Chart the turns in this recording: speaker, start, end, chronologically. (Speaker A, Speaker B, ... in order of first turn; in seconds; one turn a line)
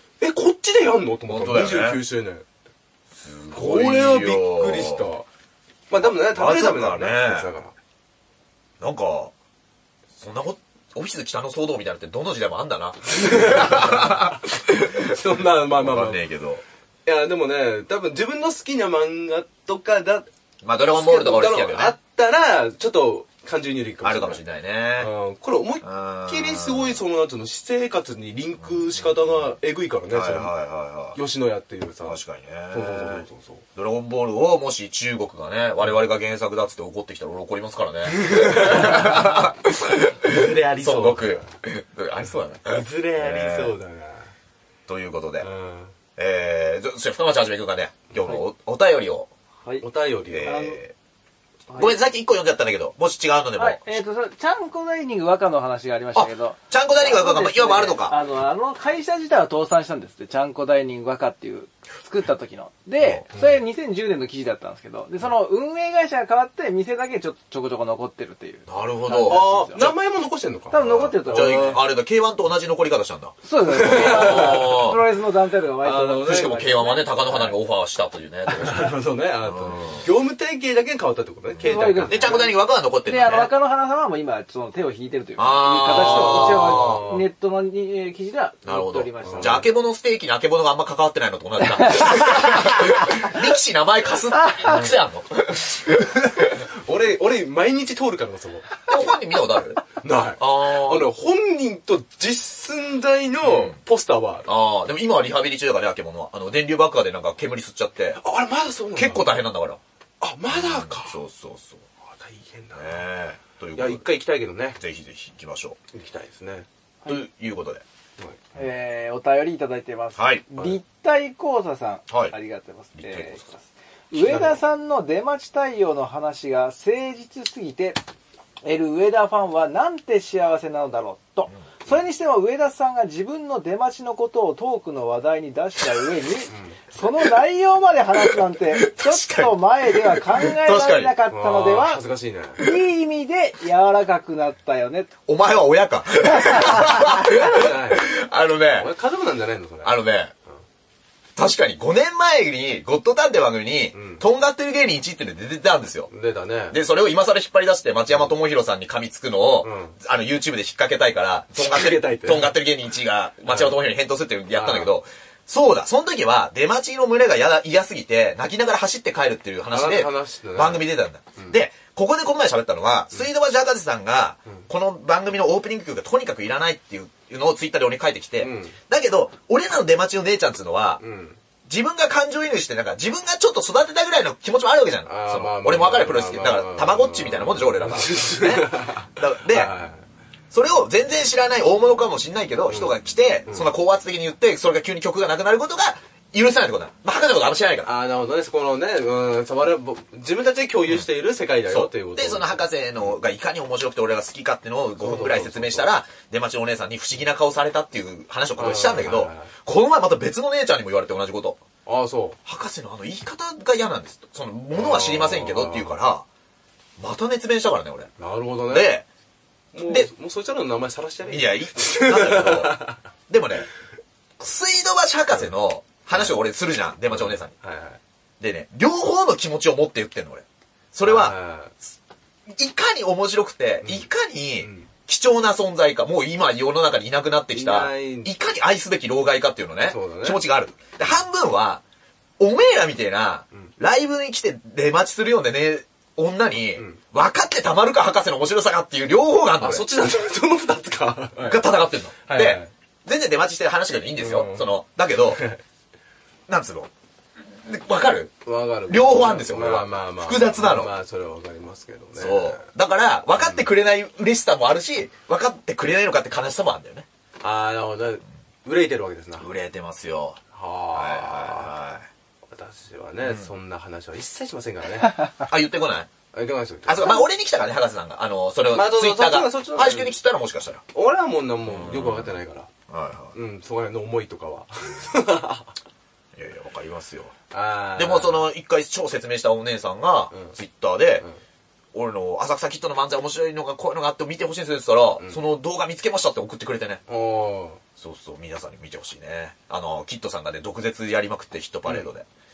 Speaker A: 0.2-2.5
Speaker B: 1.3-2.0
Speaker B: 3.1-5.1
Speaker A: 3.5-5.3
Speaker A: 5.9-7.7
Speaker B: 5.9-7.5
Speaker B: 8.8-9.3
Speaker B: 10.2-16.6
Speaker A: 13.1-16.3
Speaker A: 17.1-20.3
Speaker B: 20.6-22.0
Speaker A: 20.9-24.4
Speaker B: 24.0-25.1
Speaker A: 25.0-30.5
Speaker B: 25.8-27.0
Speaker B: 28.6-29.1
Speaker B: 30.1-31.2
Speaker A: 31.1-33.6
Speaker B: 32.0-43.8
Speaker A: 38.1-39.5
Speaker A: 40.2-41.5
Speaker A: 42.6-44.3
Speaker B: 44.9-45.5
Speaker A: 45.4-45.9
Speaker B: 46.2-49.3
Speaker A: 49.8-50.5
Speaker B: 50.3-50.9
Speaker C: 50.4-50.8
Speaker C: 51.7-52.0
Speaker B: 51.8-54.0
Speaker C: 53.6-69.9
Speaker B: 56.1-58.2
Speaker B: 68.7-69.9
Speaker A: 69.3-71.8
Speaker C: 70.7-71.8
Speaker B: 70.8-75.0
Speaker C: 73.4-77.5
Speaker A: 73.7-74.8
Speaker A: 75.8-76.6
Speaker B: 76.2-80.0
Speaker A: 78.5-82.5
Speaker B: 81.5-83.5
Speaker C: 81.6-89.7
Speaker B: 85.4-87.2
Speaker A: 85.8-87.3
Speaker B: 88.7-96.6
Speaker A: 89.2-89.6
Speaker C: 91.8-92.8
Speaker A: 96.7-98.8
Speaker B: 98.9-99.9
Speaker A: 100.0-104.5
Speaker B: 100.4-101.1
Speaker B: 103.4-103.8
Speaker B: 104.5-108.2
Speaker A: 108.2-109.4
Speaker B: 109.0-109.8
Speaker A: 110.2-111.2
Speaker B: 110.5-111.8
Speaker A: 112.1-113.1
Speaker B: 112.8-114.0
Speaker A: 113.8-114.8
Speaker B: 114.8-115.8
Speaker A: 115.9-116.7
Speaker B: 117.1-117.8
Speaker C: 118.6-128.0
Speaker B: 120.2-120.7
Speaker B: 123.0-123.5
Speaker A: 124.1-124.6
Speaker C: 128.6-142.0
Speaker A: 136.5-136.8
Speaker B: 138.2-141.2
Speaker A: 141.3-142.6
Speaker C: 142.6-145.2
Speaker B: 145.3-148.9
Speaker C: 146.4-146.9
Speaker A: 147.3-148.1
Speaker A: 148.8-150.0
Speaker B: 149.8-150.3
Speaker B: 151.4-156.1
Speaker A: 153.9-154.2
Speaker A: 156.1-156.8
Speaker B: 156.7-181.0
Speaker A: 159.6-160.0
Speaker A: 161.6-162.5
Speaker A: 163.5-163.8
Speaker A: 164.5-164.9
Speaker A: 169.7-171.6
Speaker A: 178.4-178.8
Speaker A: 181.0-181.4
Speaker B: 181.7-189.7
Speaker A: 185.1-190.0
Speaker B: 190.5-197.9
Speaker A: 192.7-193.7
Speaker A: 197.8-203.1
Speaker B: 201.7-211.6
Speaker A: 205.0-205.9
Speaker A: 208.6-209.5
Speaker A: 211.9-212.4
Speaker B: 212.5-216.3
Speaker A: 214.7-216.0
Speaker B: 217.0-218.1
Speaker A: 218.2-218.9
Speaker B: 218.7-219.1
Speaker A: 219.7-223.0
Speaker B: 221.2-223.7
Speaker B: 224.4-227.5
Speaker A: 227.1-228.0
Speaker B: 228.4-231.4
Speaker A: 231.0-231.7
Speaker B: 232.5-241.8
Speaker A: 233.8-234.1
Speaker A: 234.6-234.9
Speaker A: 237.5-238.3
Speaker A: 239.8-240.4
Speaker B: 242.4-249.9
Speaker A: 249.6-252.7
Speaker B: 251.4-255.4
Speaker A: 254.2-254.7
Speaker A: 255.2-255.6
Speaker B: 256.5-256.9
Speaker B: 257.5-260.9
Speaker A: 258.4-262.7
Speaker B: 262.2-267.1
Speaker A: 267.4-269.5
Speaker B: 269.4-270.4
Speaker A: 270.5-271.8
Speaker B: 270.9-272.1
Speaker A: 272.5-275.4
Speaker B: 273.2-273.5
Speaker B: 275.4-276.1
Speaker A: 276.3-277.2
Speaker B: 276.9-280.8
Speaker A: 278.7-280.2
Speaker A: 280.9-282.7
Speaker B: 281.7-282.4
Speaker B: 282.9-283.3
Speaker A: 283.3-285.7
Speaker B: 286.4-287.3
Speaker A: 287.5-288.5
Speaker B: 288.0-291.2
Speaker B: 291.9-297.0
Speaker A: 297.1-297.8
Speaker B: 298.0-302.3